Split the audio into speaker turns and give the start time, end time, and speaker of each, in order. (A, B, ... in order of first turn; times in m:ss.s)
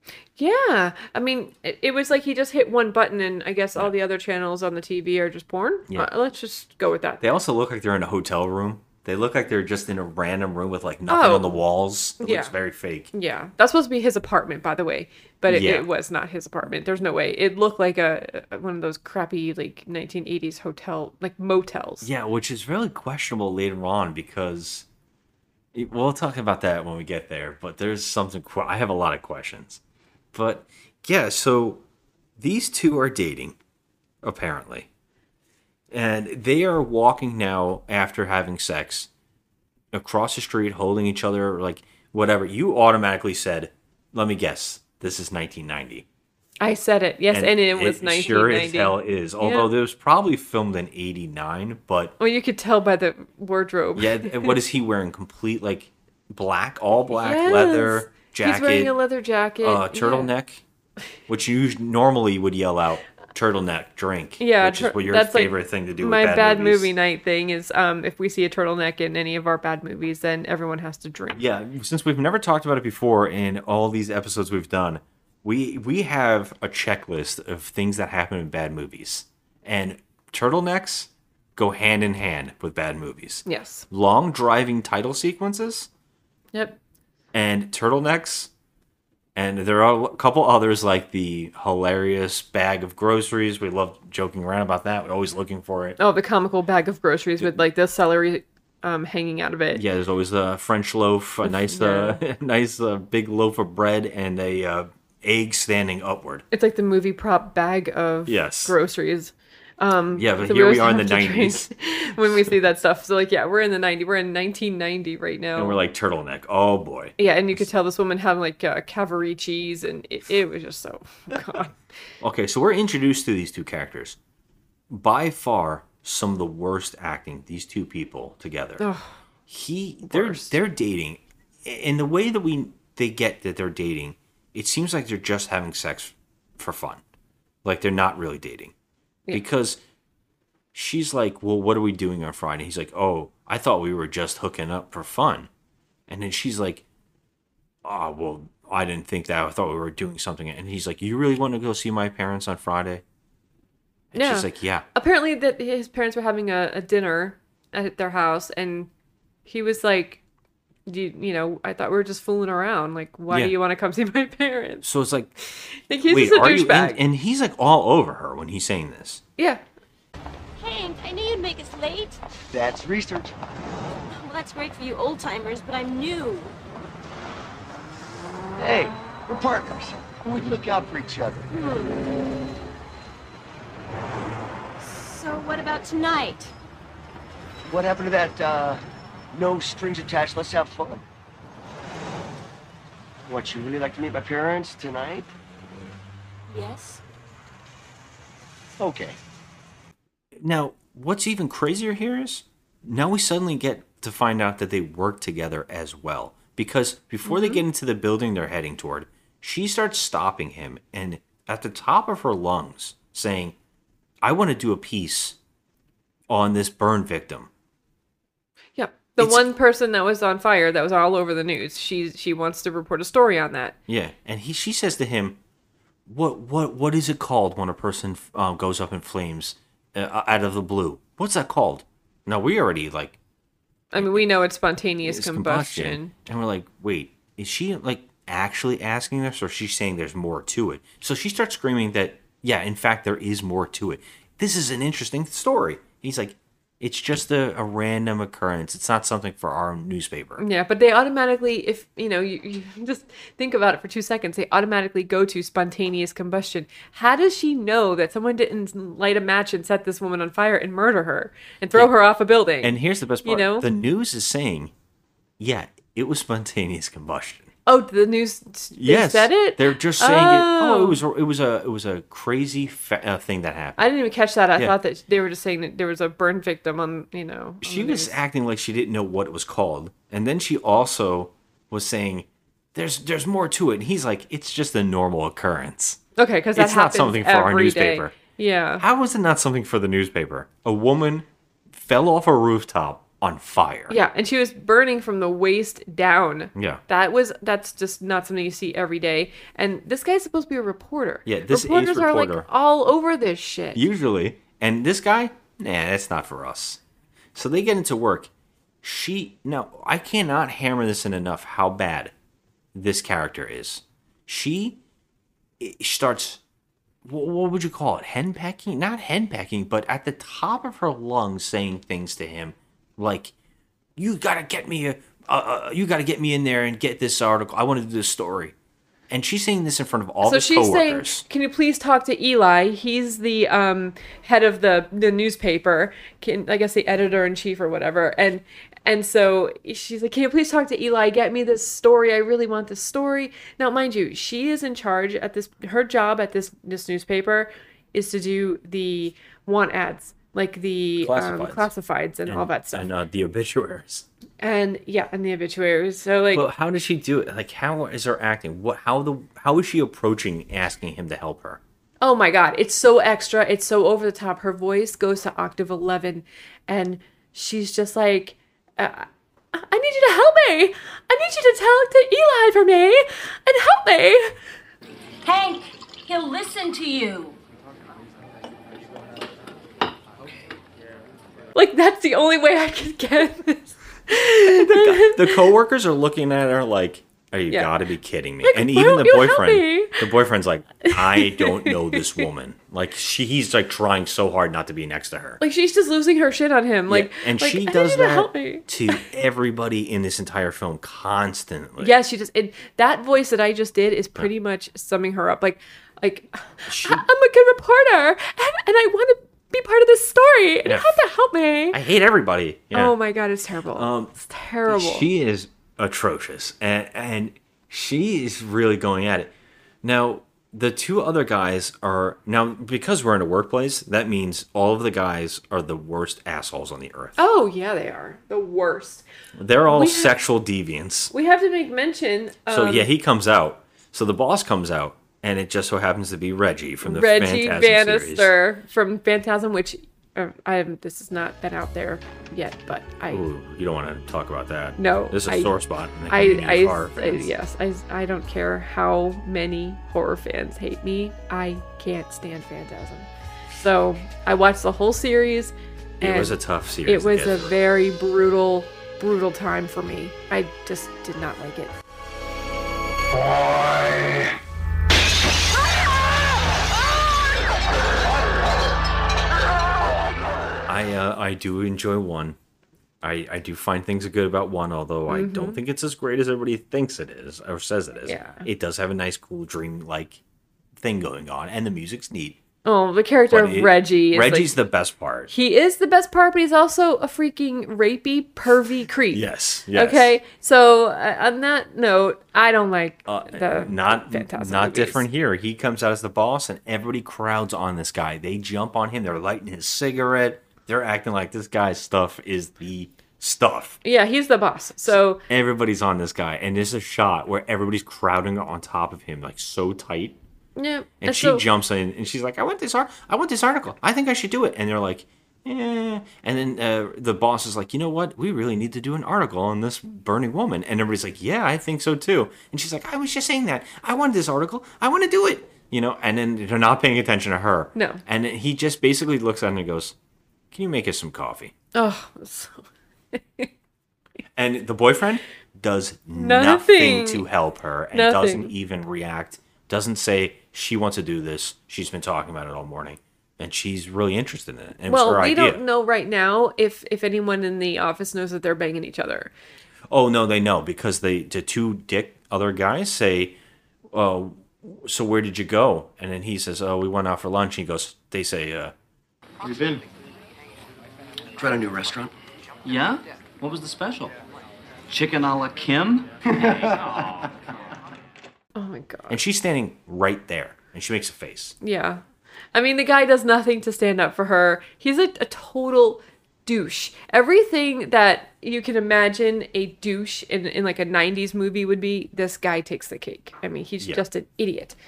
0:00.4-0:07.2 A
0:07.2-0:13.1 B
0:11.1-0:11.6 A
0:12.2-0:12.5 A
0:13.1-0:22.1 A
0:15.5-0:15.8 B
0:22.0-0:24.8 B
0:25.7-0:29.8 B
0:30.3-0:31.8 B
0:32.4-0:33.6 B
0:34.2-0:34.9 B
0:35.9-0:39.1 B
0:39.9-0:46.0 B
0:46.6-0:49.7 A
0:47.3-0:52.1 B
0:52.2-0:54.6 A
0:54.0-0:58.9 B
0:57.1-1:00.3 A
0:59.6-1:00.6 B
1:01.3-1:06.9 B
1:04.4-1:11.4 A
1:11.3-1:25.9 B
1:23.4-1:23.8 A
1:26.5-1:26.8 A
1:27.3-1:28.5 B
1:29.4-1:36.0 B
1:36.0-1:39.8 A
1:39.7-1:46.4 B
1:41.4-1:42.2 A
1:46.5-1:55.8 A
1:48.2-1:48.8 B
1:50.1-1:51.7 B
1:55.5-1:57.6 B
1:57.2-2:01.7 A
2:02.2-2:04.2 B
2:04.9-2:08.8 B
2:08.8-2:09.2 A
2:09.5-2:17.0 B
2:10.1-2:10.5 A
2:17.6-2:18.7 B
2:19.3-2:19.8 B
2:20.7-2:25.5 B
2:26.1-2:26.8 B
2:27.8-2:33.0 B
2:34.1-2:34.8 B
2:34.1-2:38.9 A
2:39.4-2:40.2 A
2:40.8-2:44.8 A
2:44.8-2:45.3 B
2:45.4-2:47.0 A
2:46.0-2:49.2 B
2:49.4-2:49.6 A
2:50.6-2:52.2 C
2:52.5-2:53.4 D
2:54.1-2:56.5 C
2:58.6-3:01.5 D
3:01.5-3:02.0 C
3:04.8-3:06.5 C
3:07.7-3:08.8 D
3:09.3-3:11.0 D
3:13.3-3:15.3 D
3:16.5-3:17.0 C
3:18.8-3:19.2 D
3:20.4-3:33.6 B
3:27.2-3:27.6 A
3:34.2-3:35.4 B
3:36.3-3:37.5 B
3:38.7-3:43.8 A
3:39.2-3:39.5 B
3:43.9-3:45.4 B
3:46.0-3:53.2 B
3:53.9-3:56.1 A
3:53.9-3:54.2 B
3:55.0-4:10.4 B
4:10.4-4:23.7 A
4:22.6-4:24.7 B
4:25.4-4:27.5 B
4:27.6-4:31.0 A
4:28.7-4:33.8 B
4:33.8-4:38.1 A
4:37.6-4:46.0 B
4:46.2-4:48.8 A
4:46.5-4:48.1 B
4:48.8-4:54.0 B
4:53.9-5:03.8 A
4:56.5-4:56.8 B
5:01.2-5:02.4 B
5:03.7-5:06.8 B
5:07.3-5:08.3 B
5:08.8-5:12.1 B
5:12.7-5:14.8 B
5:15.6-5:16.4 B
5:17.0-5:23.3 B
5:24.0-5:28.5 B
5:29.1-5:31.2 B
5:30.2-5:52.9 A
5:51.0-5:51.7 B
5:52.2-5:54.0 B
5:54.4-5:56.4 A
5:56.3-6:01.6 B
6:02.0-6:14.4 A
6:15.2-6:17.4 C
6:21.5-6:25.5 A
6:24.4-6:35.4 B
6:27.5-6:27.8 A
6:28.4-6:30.1 A
6:30.8-6:32.3 A
6:35.4-6:39.0 A
6:36.9-6:41.9 B
6:41.8-6:51.8 A
6:46.6-6:47.0 B
6:50.6-6:50.9 B
6:51.7-6:52.9 B
6:52.7-6:55.1 A
6:53.7-6:54.1 B
6:54.7-6:59.3 B
6:59.8-7:07.2 B
7:07.2-7:09.0 A
7:09.4-7:11.1 B
7:09.7-7:10.1 A
7:11.1-7:12.9 A
7:12.5-7:18.3 B
7:16.8-7:23.2 A
7:23.1-7:27.3 B
7:24.8-7:25.5 A
7:26.1-7:41.7 A
7:36.0-7:37.5 B
7:50.7-7:52.4 B
7:53.0-8:00.2 B
7:55.1-7:55.6 A
7:58.0-7:58.5 A
8:00.8-8:02.4 B
8:02.6-8:04.5 A
8:03.3-8:05.3 B
8:05.3-8:15.0 A
8:09.1-8:10.1 B
8:13.0-8:23.8 B
8:23.8-8:25.2 A
8:24.9-8:30.2 B
8:30.6-8:31.4 A
8:31.0-8:50.0 B
8:47.7-8:48.0 A
8:50.5-8:51.5 B
8:51.7-8:53.5 A
8:54.4-9:05.6 B
8:56.1-8:57.2 A
8:57.9-8:58.5 A
9:04.9-9:09.3 A
9:09.9-9:13.4 B
9:13.9-9:18.7 B
9:19.4-9:19.8 E
9:21.4-9:22.1 D
9:22.6-9:24.1 E
9:24.9-9:26.8 E
9:28.5-9:29.2 A
9:29.1-9:31.5 B
9:31.6-9:44.8 A